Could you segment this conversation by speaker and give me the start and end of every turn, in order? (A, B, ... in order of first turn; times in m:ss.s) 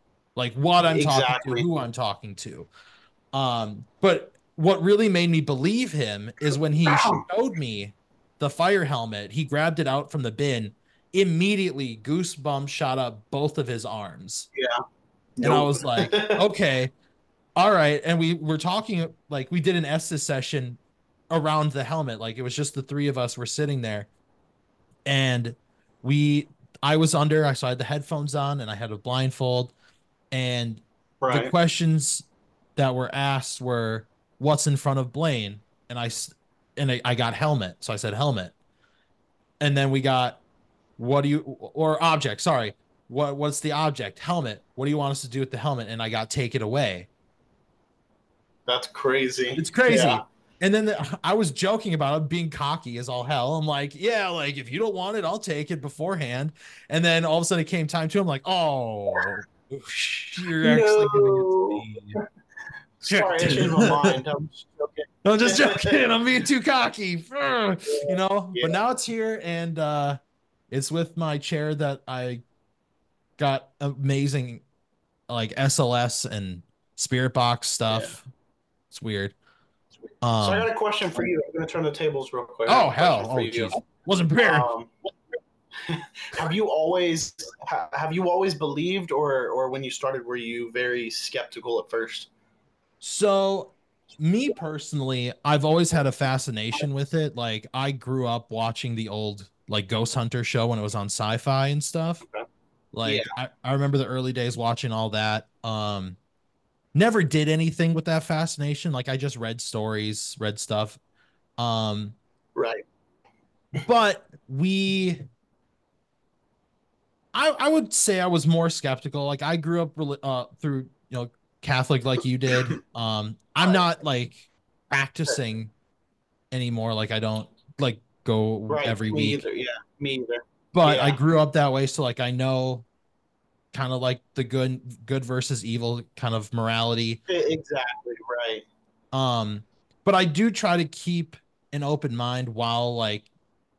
0:00.4-0:02.7 A
0:00.9-0:01.7 B
0:03.3-0:14.5 A
0:06.9-0:07.2 B
0:15.4-0:16.4 B
0:15.4-0:16.9 A
0:17.6-0:20.8 A
0:21.3-0:24.1 A
0:25.0-0:29.7 A
0:30.3-0:38.5 A
0:31.2-0:31.5 B
0:39.6-0:40.4 A
0:41.0-0:47.1 A
0:48.7-0:50.2 B
0:49.6-1:02.2 A
1:00.6-1:02.2 B
1:03.0-1:06.0 B
1:03.1-1:04.2 A
1:05.2-1:10.2 A
1:07.9-1:08.8 B
1:10.7-1:12.4 A
1:13.4-1:14.6 A
1:15.3-1:18.2 A
1:17.9-1:18.2 B
1:18.9-1:19.3 A
1:20.2-1:20.7 A
1:20.4-1:23.8 B
1:22.7-1:24.7 A
1:24.4-1:24.9 B
1:25.9-1:32.3 B
1:33.0-1:42.2 A
1:42.9-1:46.2 A
1:46.9-1:51.0 A
1:51.6-1:52.2 A
1:52.6-1:52.8 B
1:53.8-1:55.2 A
1:57.3-2:05.7 A
2:06.5-2:09.4 A
2:08.7-2:11.2 B
2:10.7-2:12.8 A
2:13.7-2:17.2 A
2:17.3-2:18.6 B
2:19.1-2:23.3 A